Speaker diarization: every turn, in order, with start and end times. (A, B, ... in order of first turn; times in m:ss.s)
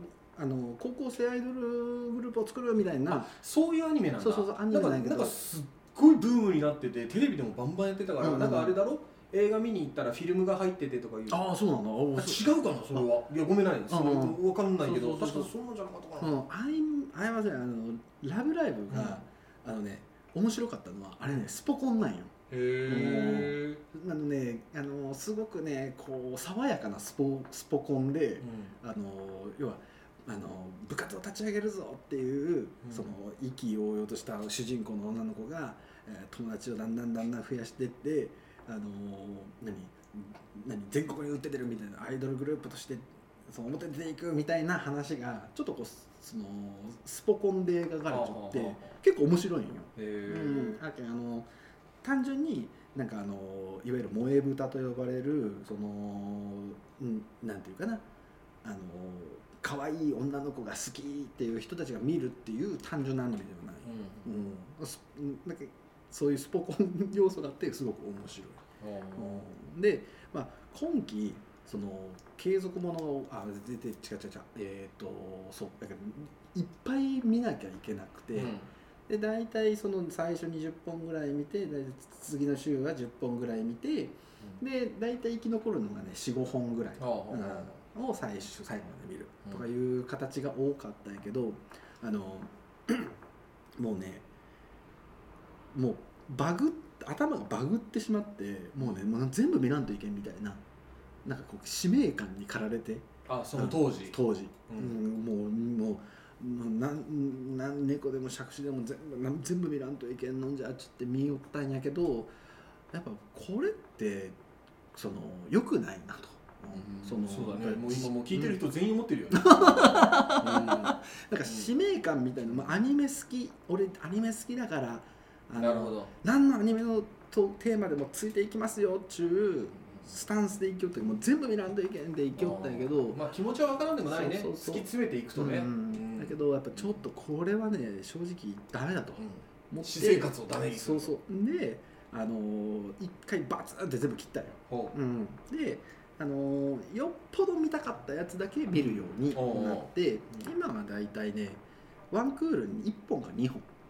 0:00.3-0:03.3 A
0:03.1-0:11.5 B
0:04.2-0:05.4 A
0:08.2-0:08.8 A
0:11.3-0:13.0 A
0:12.1-0:16.4 B
0:13.9-0:15.5 A
0:16.2-0:51.5 A
0:18.9-0:19.2 B
0:22.5-0:23.8 B
0:28.4-0:28.7 B
0:32.8-0:33.1 B
0:48.1-0:48.9 B
0:50.0-0:50.8 B
0:52.0-0:58.0 A
0:58.6-1:08.6 A
1:03.8-1:04.4 B
1:08.8-1:09.4 B
1:09.1-1:18.5 A
1:18.3-1:18.7 B
1:19.1-1:33.1 A
1:27.0-1:27.8 B
1:33.8-1:34.2 A
1:35.7-1:40.6 A
1:41.2-1:52.3 A
1:43.3-1:44.2 B
1:44.7-1:45.0 B
1:52.9-1:54.4 A
1:54.9-1:58.6 A
1:56.7-2:01.7 B
1:59.3-2:13.2 A
2:05.6-2:06.1 B
2:12.4-2:16.9 B
2:14.1-2:33.6 A
2:19.2-2:21.1 B
2:24.7-2:25.0 B
2:29.3-2:29.9 B